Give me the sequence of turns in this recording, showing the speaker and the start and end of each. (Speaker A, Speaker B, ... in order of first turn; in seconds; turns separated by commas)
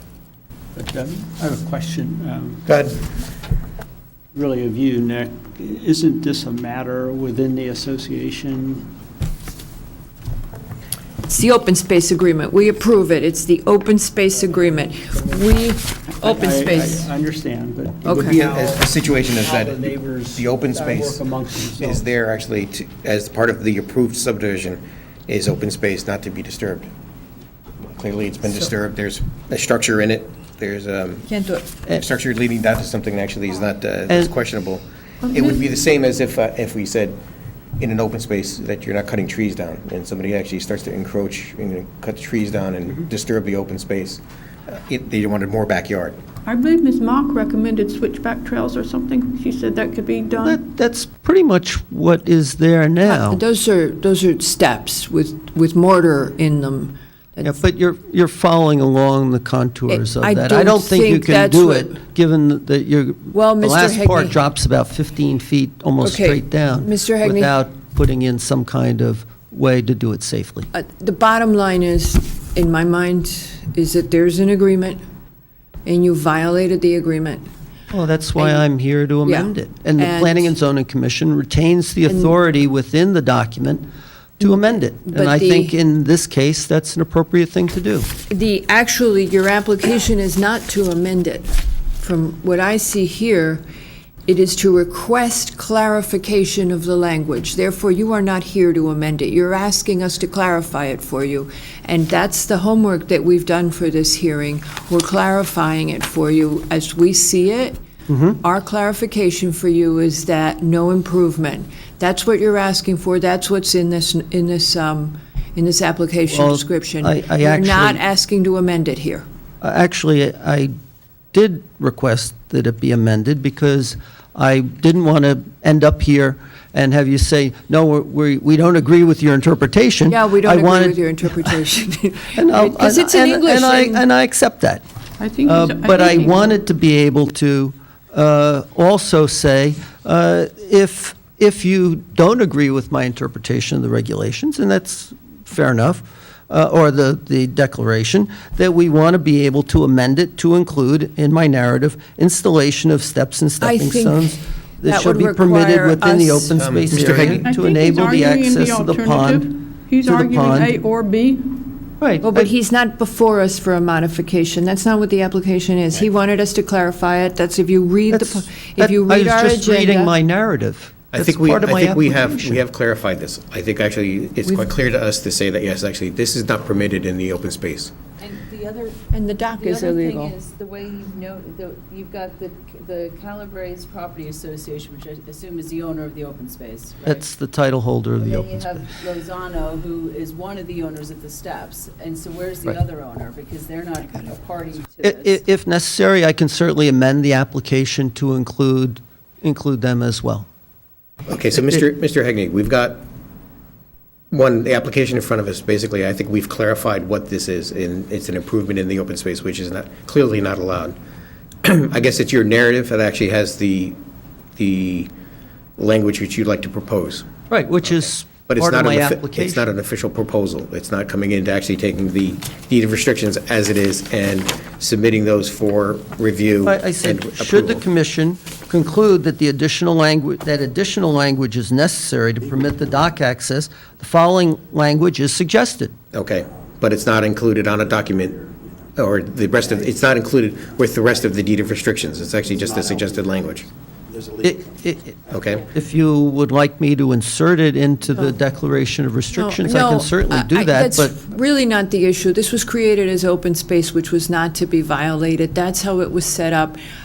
Speaker A: 0.8-2.7, Speaker B: 2.7-3.0, Speaker A: 4.3-8.9, Speaker C: 11.3-17.1, Speaker A: 14.3-15.6, Speaker A: 16.1-22.0, Speaker C: 18.1-18.4, Speaker B: 18.3-21.2, Speaker B: 21.8-26.9, Speaker B: 27.9-31.3, Speaker C: 31.3-31.7, Speaker B: 31.9-37.2, Speaker D: 35.3-35.6, Speaker B: 37.8-46.2, Speaker D: 46.5-50.6, Speaker E: 50.4-53.4, Speaker C: 53.0-57.6, Speaker E: 57.4-70.7, Speaker C: 59.9-62.0, Speaker C: 63.3-64.4, Speaker C: 66.0-67.5, Speaker C: 70.7-75.0, Speaker C: 75.9-77.5, Speaker E: 77.9-83.8, Speaker C: 78.4-78.7, Speaker C: 79.2-80.5, Speaker C: 82.1-82.3, Speaker E: 84.4-88.1, Speaker C: 85.1-85.8, Speaker C: 88.3-93.6, Speaker C: 94.3-107.8, Speaker E: 108.1-108.4, Speaker C: 108.4-119.2, Speaker E: 116.3-118.0, Speaker E: 119.6-120.7, Speaker E: 121.3-131.0, Speaker C: 130.1-134.0, Speaker E: 132.3-134.8, Speaker D: 135.2-136.5, Speaker E: 135.4-160.8, Speaker C: 153.6-156.6, Speaker B: 156.6-157.4, Speaker D: 157.3-161.6, Speaker E: 162.0-162.5, Speaker C: 162.2-170.1, Speaker E: 168.1-172.6, Speaker B: 171.1-177.9, Speaker F: 178.2-187.3, Speaker C: 179.1-180.3, Speaker E: 187.1-188.7, Speaker F: 188.2-195.4, Speaker E: 195.0-200.5, Speaker B: 201.3-203.1, Speaker B: 204.3-211.0, Speaker B: 211.6-214.0, Speaker B: 214.6-215.1, Speaker B: 215.8-217.3, Speaker E: 217.5-219.7, Speaker B: 217.8-227.8, Speaker E: 226.6-235.9, Speaker B: 236.1-243.7, Speaker E: 244.4-245.2, Speaker B: 245.3-245.7, Speaker E: 245.7-251.1, Speaker C: 249.3-256.8